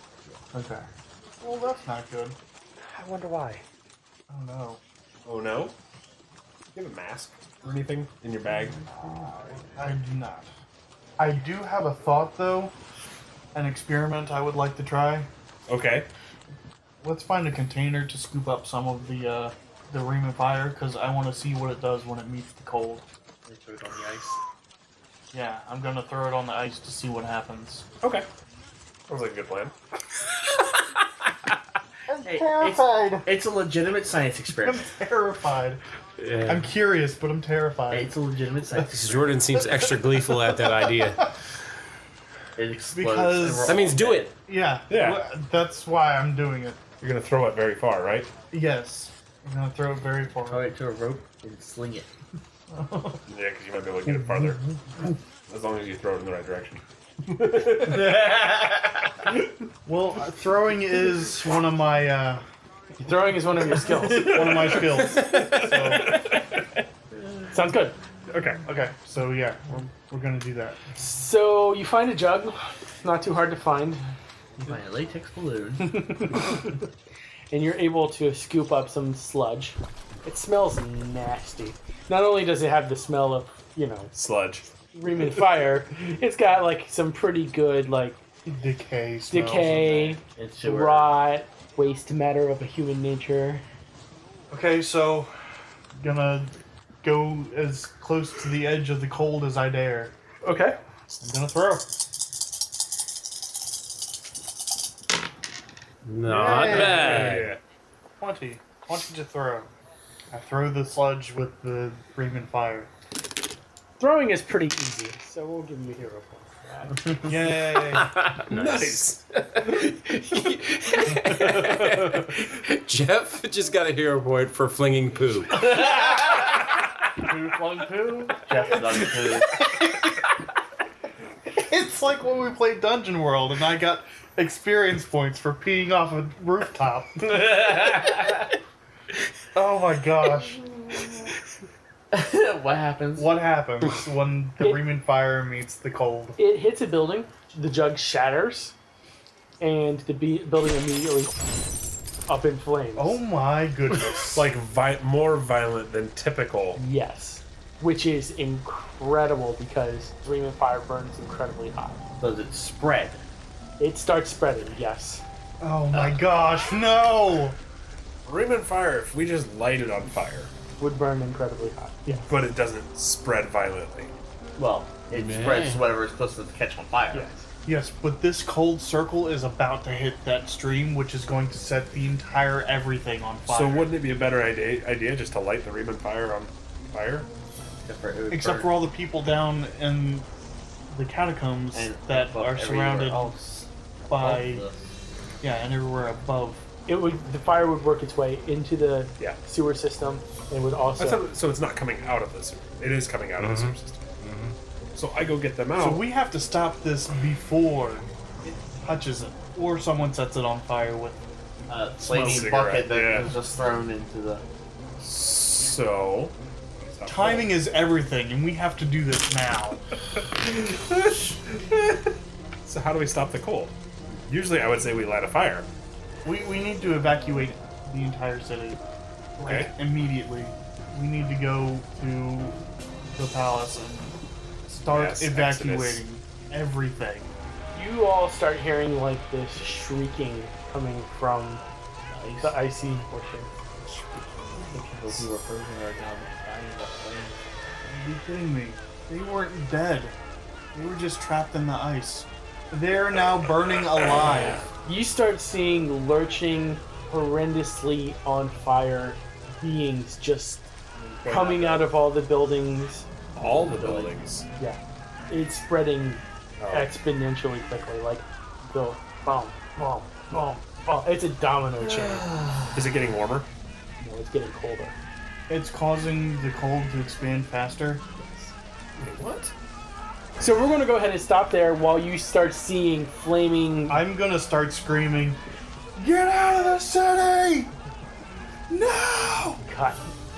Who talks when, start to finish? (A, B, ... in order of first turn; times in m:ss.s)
0:00.5-0:00.9 A
0:01.4-0:02.4 A
0:02.8-0:03.6 B
0:04.3-0:04.8 A
0:05.2-0:05.7 C
0:06.7-0:08.8 C
0:08.9-0:10.5 A
0:11.2-0:12.7 A
0:13.5-0:15.3 A
0:15.7-0:16.1 C
0:17.0-0:23.1 A
0:23.5-0:24.4 D
0:25.3-0:27.9 A
0:28.0-0:28.3 C
0:29.1-0:29.7 C
0:32.1-0:33.3 A
0:32.2-0:34.9 D
0:34.6-0:35.8 A
0:36.2-0:36.7 E
0:36.5-0:38.1 A
0:37.9-0:39.4 D
0:38.8-0:41.3 E
0:42.6-0:44.3 D
0:42.9-0:43.8 A
0:43.6-0:44.3 E
0:44.5-0:46.9 A
0:44.9-0:45.2 C
0:47.0-0:48.3 C
0:48.5-0:50.7 A
0:50.5-0:52.1 D
0:52.7-0:53.2 A
0:53.3-0:58.4 C
0:54.1-0:54.6 A
0:59.8-1:02.4 A
1:03.0-1:04.4 B
1:04.0-1:06.3 A
1:04.3-1:06.6 C
1:05.2-1:06.0 E
1:07.5-1:08.0 B
1:08.3-1:08.6 C
1:08.6-1:10.8 A
1:11.0-1:14.0 B
1:14.6-1:16.2 D
1:15.8-1:16.6 B
1:17.5-1:24.1 B
1:24.1-1:24.7 C
1:24.9-1:28.2 B
1:28.5-1:30.2 A
1:29.3-1:33.6 B
1:30.2-1:31.1 D
1:34.5-1:35.3 A
1:36.0-1:40.1 A
1:40.4-1:40.8 B
1:41.2-1:41.9 A
1:46.0-1:47.5 E
1:46.2-1:47.4 A
1:46.5-1:47.6 C
1:48.2-1:49.7 A
1:50.3-1:52.9 A
1:54.0-1:57.0 B
1:57.2-1:58.2 A
1:57.7-2:05.7 E
1:58.5-1:59.6 C
2:01.6-2:02.1 C
2:05.6-2:06.5 D
2:07.2-2:09.6 D
2:11.5-2:17.4 A
2:19.5-2:20.8 A
2:22.1-2:23.3 D
2:23.2-2:26.4 A
2:26.4-2:28.7 B
2:29.6-2:31.4 B
2:32.3-2:33.2 B
2:33.0-2:34.5 A
2:34.3-2:36.8 C
2:36.8-2:42.0 B
2:42.2-2:43.2 D
2:43.8-2:45.2 B
2:45.6-2:47.6 A
2:48.2-2:50.5 C
2:50.8-2:52.3 B
2:52.2-2:54.1 C
2:54.6-2:57.3 D
2:57.1-2:57.5 B
2:57.6-3:03.9 A
3:03.5-3:07.3 C
3:07.8-3:08.8 D
3:08.3-3:10.3 A
3:10.9-3:13.4 A
3:11.7-3:14.9 D
3:14.1-3:14.7 A
3:15.4-3:16.6 A
3:16.9-3:21.2 B
3:21.0-3:24.2 C
3:23.4-3:24.6 E
3:24.9-3:26.1 C
3:25.8-3:28.1 A
3:28.7-3:31.2 A
3:31.7-3:34.4 D
3:32.0-3:32.7 A
3:32.1-3:33.3 C
3:35.0-3:37.6 C
3:37.1-3:39.8 A
3:40.4-3:42.1 C
3:42.6-3:45.7 C
3:46.2-3:48.8 A
3:49.4-3:52.6 A
3:49.4-3:49.7 C
3:53.1-3:57.3 A
3:54.9-3:56.0 C
3:57.7-4:01.6 B
4:02.1-4:02.6 D
4:02.4-4:03.5 B
4:04.7-4:07.4 D
4:07.8-4:10.2 A
4:10.7-4:14.6 A
4:14.8-4:20.7 B
4:21.0-4:21.9 D
4:21.3-4:23.1 B
4:23.4-4:24.5 C
4:23.4-4:24.2 D
4:24.6-4:32.3 B
4:26.6-4:26.9 C
4:32.7-4:33.5 C
4:34.0-4:35.0 B
4:35.5-4:38.0 A
4:38.2-4:38.5 B
4:39.0-4:39.5 C
4:40.4-4:44.0 B
4:43.9-4:45.4 A
4:46.0-4:47.7 A
4:48.7-4:49.6 A
4:49.6-4:50.0 B